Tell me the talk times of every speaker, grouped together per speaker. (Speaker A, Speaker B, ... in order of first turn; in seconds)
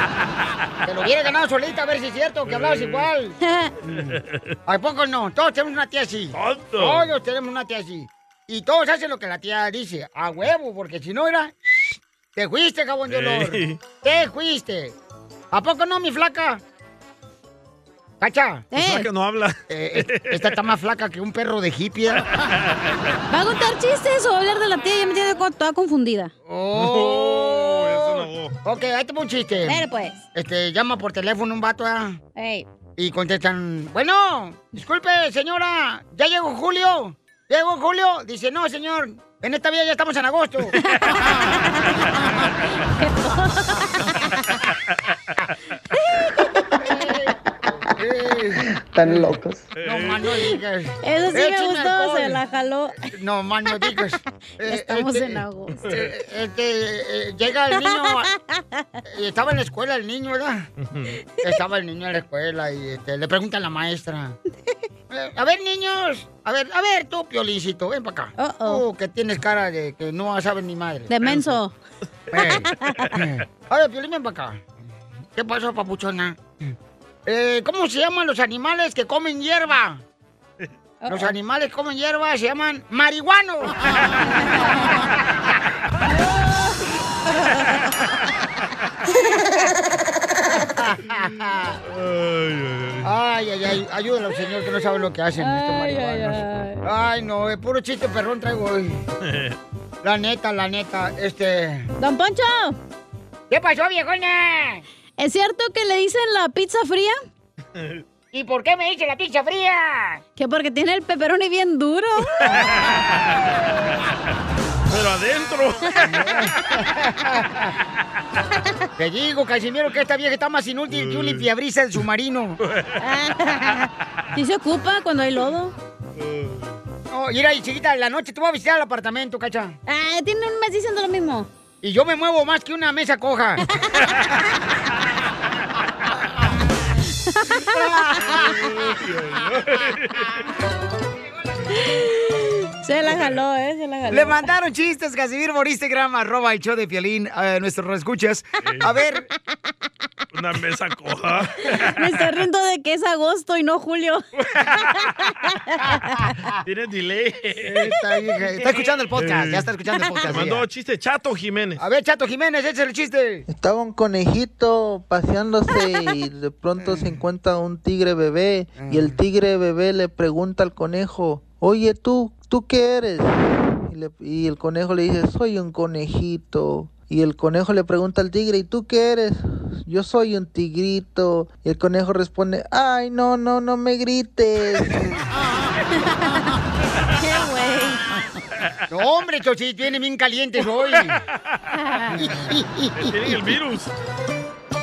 Speaker A: 0.8-3.4, 4.7-14.9, 15.5-16.6, 18.2-18.7, 19.7-22.3, 26.4-29.8, 30.3-32.2, 33.0-40.8, 46.8-49.3, 49.8-52.4, 53.0-58.3, 59.1-60.7, 61.4-64.4, 65.1-71.1, 72.3-74.7, 75.3-76.7, 77.2-80.0, 81.1-83.8, 90.8-91.8, 93.0-99.0, 100.0-101.9, 103.5-104.8, 108.3-110.2, 116.1-117.7, 119.0-122.6, 127.1-129.8, 131.8-133.6, 137.8-138.4, 144.1-149.3, 157.6-160.6, 161.8-163.4, 166.8-167.2, 168.8-169.2, 188.9-191.2, 192.1-193.3
Speaker B: 2.5-3.1, 4.0-4.4, 6.3-7.0, 13.1-13.8, 18.8-20.6, 22.4-22.8, 26.7-28.6, 49.8-50.2, 60.8-61.2, 91.9-93.0, 99.2-99.6, 112.4-113.0, 114.9-116.3, 120.9-121.5, 122.6-123.0, 126.2-126.7, 138.4-140.4, 150.3-151.9, 154.4-154.9, 156.6-157.7, 159.2-159.7, 160.3-161.8, 190.8-191.6, 193.0-193.9
Speaker C: 3.4-3.7, 18.7-19.1, 23.3-26.3, 29.6-30.2, 32.4-32.7, 40.8-42.2, 42.8-44.3, 45.9-46.3, 51.0-53.1, 54.6-55.8, 57.8-58.8, 68.4-68.8, 71.1-71.7, 72.5-73.1, 81.0-81.3, 86.1-86.8, 95.4-96.8, 102.0-102.8, 105.2-107.2, 110.3-112.6, 123.0-125.7, 129.9-131.5, 133.7-134.1, 137.3-137.8, 141.7-144.5, 151.7-154.2, 154.9-156.1, 186.0-186.5, 187.2-188.0, 191.8-192.2
Speaker D: 163.5-185.2